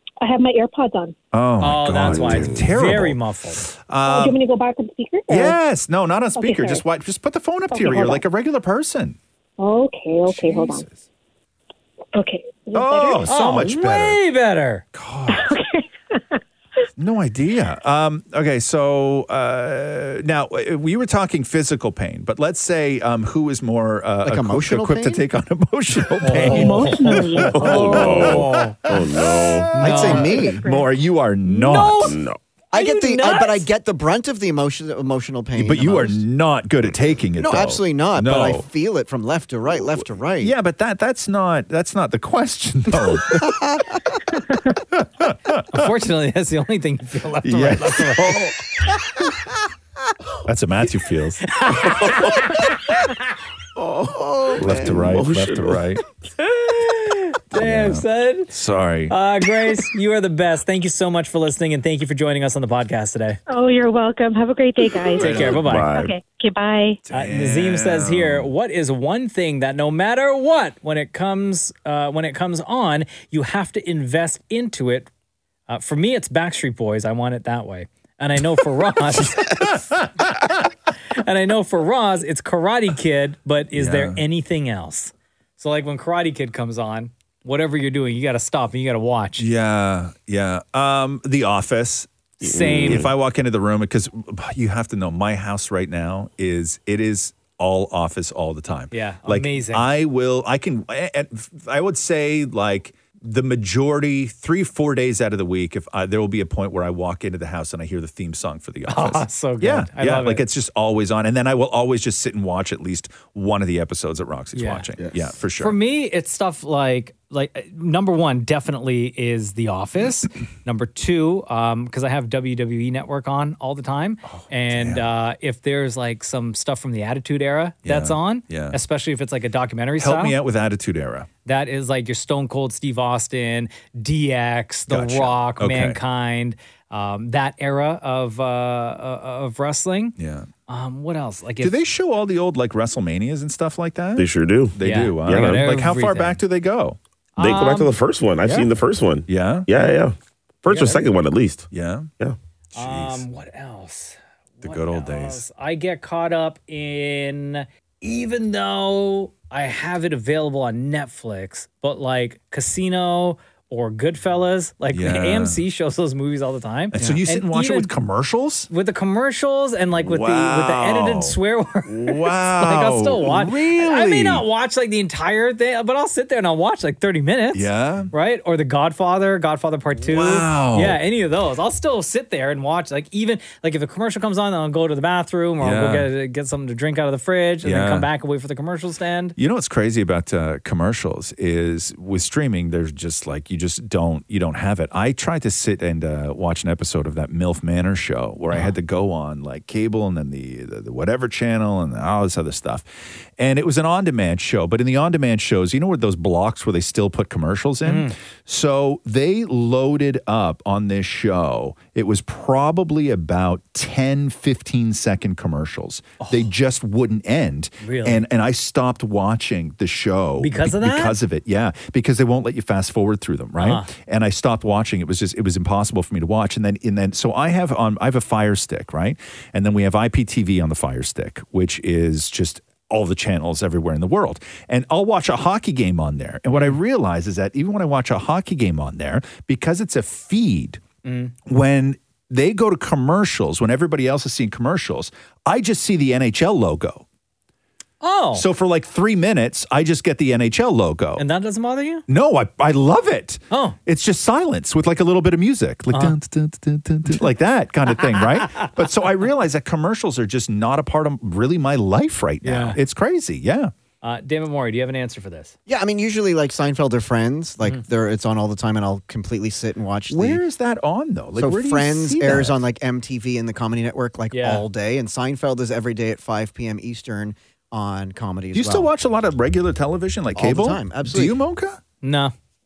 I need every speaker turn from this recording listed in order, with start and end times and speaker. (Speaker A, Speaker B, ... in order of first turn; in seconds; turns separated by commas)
Speaker A: 0.2-1.1, Speaker B: 1.3-4.4, Speaker C: 1.6-3.6, Speaker D: 2.1-2.6, Speaker A: 4.0-5.6, Speaker B: 5.3-9.2, Speaker A: 6.3-6.8, Speaker A: 7.7-8.2, Speaker A: 9.6-10.9, Speaker B: 10.3-11.0, Speaker A: 12.1-13.7, Speaker B: 12.7-14.2, Speaker C: 13.2-14.8, Speaker B: 14.9-15.6, Speaker A: 15.3-16.4, Speaker B: 17.0-32.2, Speaker E: 24.2-25.2, Speaker C: 26.2-28.8, Speaker A: 26.3-28.2, Speaker D: 27.4-29.8, Speaker C: 29.7-30.5, Speaker E: 29.8-30.6, Speaker A: 30.4-30.9, Speaker C: 31.4-32.2, Speaker D: 32.0-32.4, Speaker C: 32.7-33.7, Speaker E: 32.7-36.2, Speaker B: 35.5-38.7, Speaker E: 37.4-40.5, Speaker B: 40.4-43.6, Speaker E: 43.0-44.1, Speaker B: 44.9-45.9, Speaker C: 45.7-48.5, Speaker B: 47.4-48.6, Speaker B: 50.4-51.5, Speaker C: 51.5-53.0, Speaker D: 51.8-52.6, Speaker D: 53.8-55.8, Speaker B: 54.6-56.0, Speaker C: 56.4-58.5, Speaker B: 57.5-59.1, Speaker C: 59.1-63.4, Speaker A: 63.5-67.0, Speaker C: 65.2-65.9, Speaker D: 65.2-66.1, Speaker B: 65.2-65.6, Speaker B: 67.0-68.5, Speaker C: 67.1-75.1, Speaker C: 75.7-79.9, Speaker B: 79.4-80.1, Speaker C: 81.1-89.5, Speaker B: 83.7-84.2, Speaker B: 89.4-115.8, Speaker C: 92.4-93.1, Speaker D: 92.4-93.1, Speaker C: 98.9-99.9, Speaker C: 108.9-110.4, Speaker C: 114.5-114.9, Speaker C: 115.6-130.4, Speaker B: 124.2-125.0, Speaker B: 127.8-128.8, Speaker B: 130.0-131.3, Speaker C: 131.4-140.2, Speaker B: 134.9-136.0, Speaker B: 140.2-140.5, Speaker C: 140.7-141.8, Speaker B: 141.6-147.0, Speaker D: 144.2-145.7, Speaker C: 144.8-146.4, Speaker C: 147.4-147.9, Speaker D: 147.4-151.7, Speaker B: 149.3-149.7, Speaker C: 150.7-151.0, Speaker B: 151.7-152.1, Speaker B: 152.7-153.2, Speaker C: 152.7-167.9, Speaker B: 154.6-155.4, Speaker B: 164.9-165.6, Speaker B: 166.9-168.7, Speaker C: 168.7-189.3, Speaker B: 170.0-171.4, Speaker B: 171.9-174.4, Speaker B: 177.5-178.1, Speaker B: 180.0-181.0, Speaker B: 185.6-186.1, Speaker B: 187.6-188.1, Speaker B: 189.4-240.8, Speaker C: 207.8-208.1, Speaker C: 216.2-216.4, Speaker C: 217.8-218.2, Speaker C: 220.4-221.2, Speaker C: 223.6-223.9, Speaker C: 241.0-241.3, Speaker B: 241.4-247.0, Speaker C: 248.0-248.4, Speaker B: 248.3-251.2, Speaker C: 251.2-252.0, Speaker B: 252.1-263.7, Speaker C: 253.5-253.8, Speaker C: 262.4-262.8, Speaker C: 264.0-265.5, Speaker E: 265.7-270.4, Speaker B: 270.1-272.6, Speaker E: 271.4-278.9, Speaker C: 274.3-274.6, Speaker B: 278.5-281.8, Speaker E: 280.4-281.4, Speaker C: 282.0-282.3